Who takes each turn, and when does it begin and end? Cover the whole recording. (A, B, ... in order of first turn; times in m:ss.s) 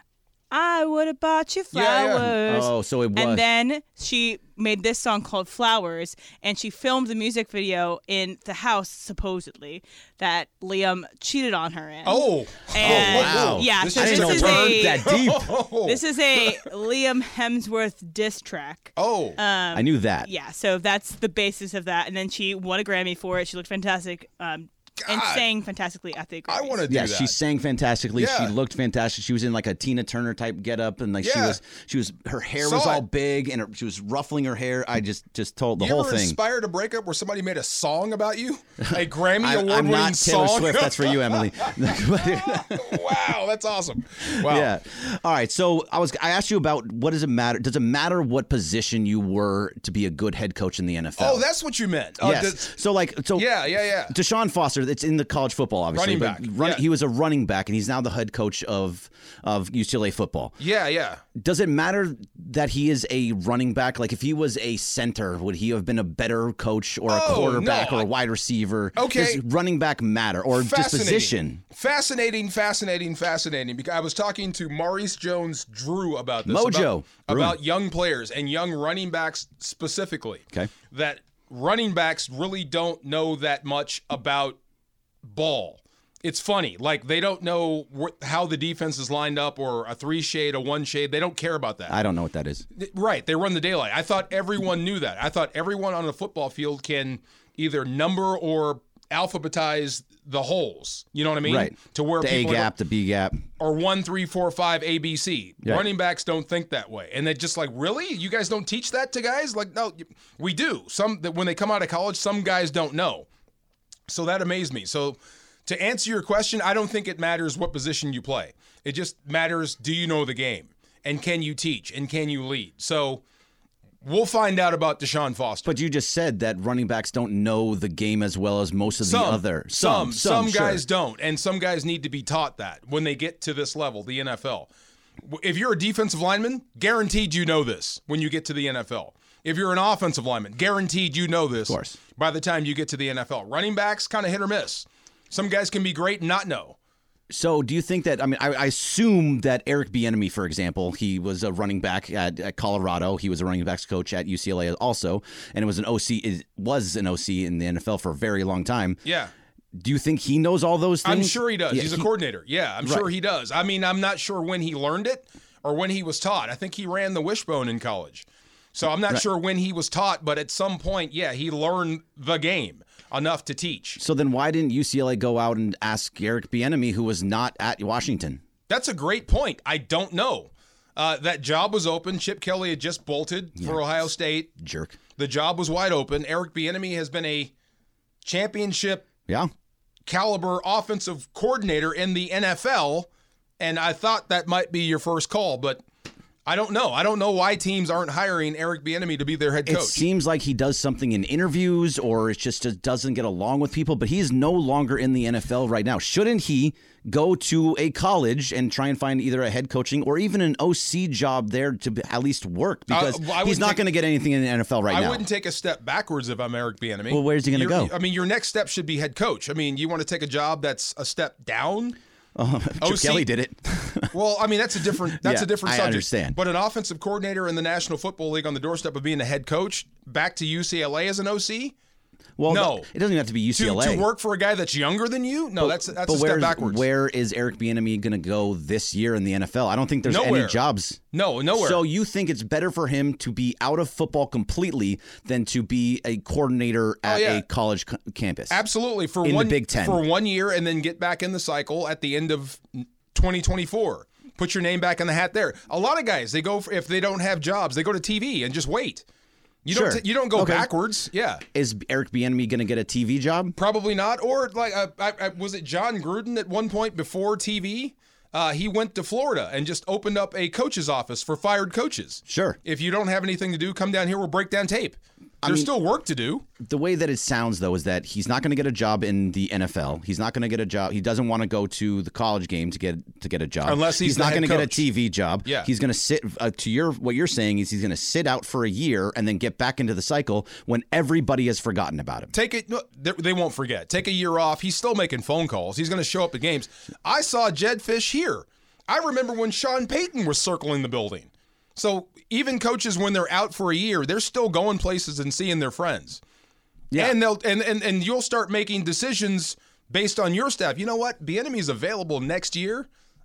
0:00.5-0:15.1 A
0:01.7-0:02.3 B
0:02.2-0:03.4 C
0:12.1-0:16.5 B
0:12.8-0:15.6 C
0:15.8-0:26.8 A
0:19.0-0:19.4 B
0:19.7-0:20.3 C
0:25.0-0:25.5 B
0:26.5-0:27.4 B
0:26.9-0:36.4 C
0:28.2-0:28.5 B
0:31.2-0:31.6 B
0:32.6-0:33.0 B
0:35.8-0:44.7 B
0:38.8-0:43.1 C
0:44.2-0:51.4 C
0:51.2-0:52.8 B
0:52.2-1:00.6 C
0:53.4-0:54.2 B
0:55.9-0:56.8 B
1:00.6-1:01.2 B
1:01.4-1:11.6 C
1:07.1-1:08.1 B
1:09.0-1:09.4 B
1:10.6-1:24.6 B
1:16.5-1:17.6 C
1:25.2-1:32.0 B
1:31.9-1:32.7 C
1:32.8-1:42.7 B
1:41.4-1:43.4 C
1:43.6-1:53.3 B
1:45.6-1:45.9 C
1:54.1-2:03.2 B
2:04.0-2:05.7 B
2:05.6-2:10.8 C
2:09.0-2:14.7 B
2:15.2-2:26.8 B
2:21.7-2:22.0 C
2:27.3-2:39.0 C
2:39.0-2:39.3 B
2:39.8-2:42.1 C
2:41.0-2:54.0 B
2:54.0-2:58.4 C
2:58.7-3:04.5 B
3:04.6-3:05.0 C
3:05.2-3:07.5 B
3:08.2-3:09.1 B
3:10.1-3:13.1 B
3:13.6-3:15.8 B
3:16.5-3:20.0 B
3:19.7-3:35.2 C
3:32.9-3:33.8 B
3:34.9-3:42.0 B
3:37.1-3:37.9 C
3:42.4-3:44.1 C
3:42.8-3:43.3 B
3:44.1-3:51.8 B
3:44.9-3:46.4 C
3:52.4-3:54.1 C
3:52.5-3:52.9 B
3:53.6-3:56.9 B
3:55.6-4:01.0 C
4:00.1-4:00.6 B
4:01.1-4:01.8 B
4:01.5-4:08.6 C
4:07.1-4:07.4 B
4:08.5-4:19.0 B
4:09.2-4:10.0 C
4:19.6-4:21.4 B
4:19.7-4:20.7 C
4:21.5-4:23.6 C
4:23.6-4:36.5 B
4:32.3-4:32.6 C
4:35.4-4:35.7 C
4:36.6-4:52.3 C
4:43.6-4:44.9 B
4:52.3-5:06.2 B
5:06.9-5:07.2 C
5:06.9-5:12.9 B